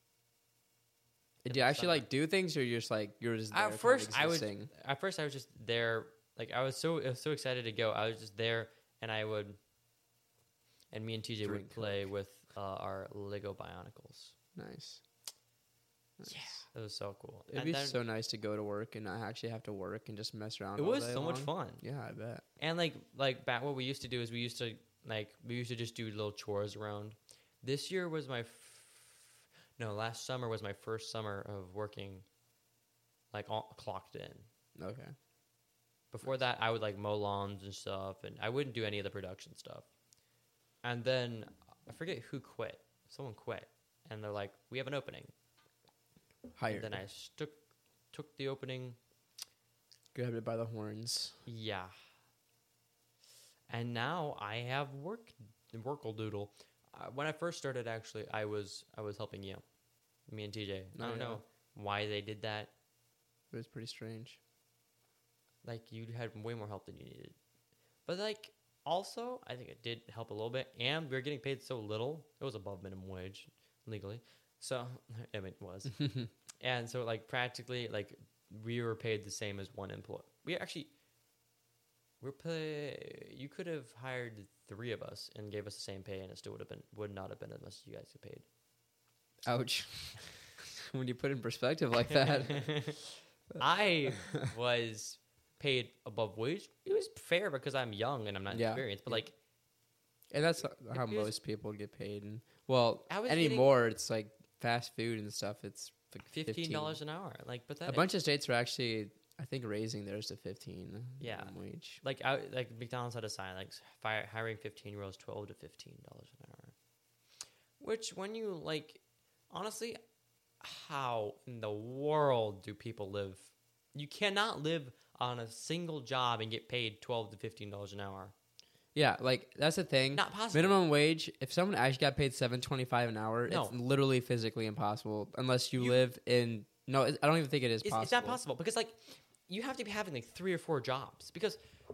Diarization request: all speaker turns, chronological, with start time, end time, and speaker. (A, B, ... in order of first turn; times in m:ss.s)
0:01.4-0:04.7 A
0:01.5-0:02.0 B
0:03.5-0:09.6 B
0:10.9-0:14.3 B
0:11.4-0:12.1 A
0:14.6-0:15.0 A
0:16.2-0:16.7 A
0:16.2-0:18.0 B
0:17.5-0:22.4 A
0:20.8-0:21.8 B
0:22.6-0:32.3 B
0:33.3-0:34.5 B
0:34.8-0:35.1 A
0:36.1-0:39.9 B
0:40.8-0:45.3 B
0:46.6-0:47.0 A
0:46.7-0:47.6 B
0:48.1-0:49.0 B
0:50.1-0:51.4 A
0:51.5-0:51.9 B
0:53.7-0:59.6 B
1:00.3-1:02.7 B
1:01.0-1:01.4 A
1:03.5-1:04.4 A
1:05.6-1:07.4 B
1:08.1-1:20.9 B
1:22.2-1:28.5 B
1:29.4-1:33.0 A
1:32.4-1:33.0 B
1:33.6-1:39.4 B
1:38.5-1:39.2 A
1:40.3-1:47.0 A
1:40.9-1:41.4 B
1:43.1-1:43.8 B
1:46.3-1:48.1 B
1:47.9-1:52.0 A
1:51.2-1:56.7 B
1:57.8-2:00.0 B
2:00.6-2:08.3 B
2:09.0-2:18.4 A
2:10.1-2:10.8 B
2:13.5-2:13.8 B
2:17.8-2:21.6 B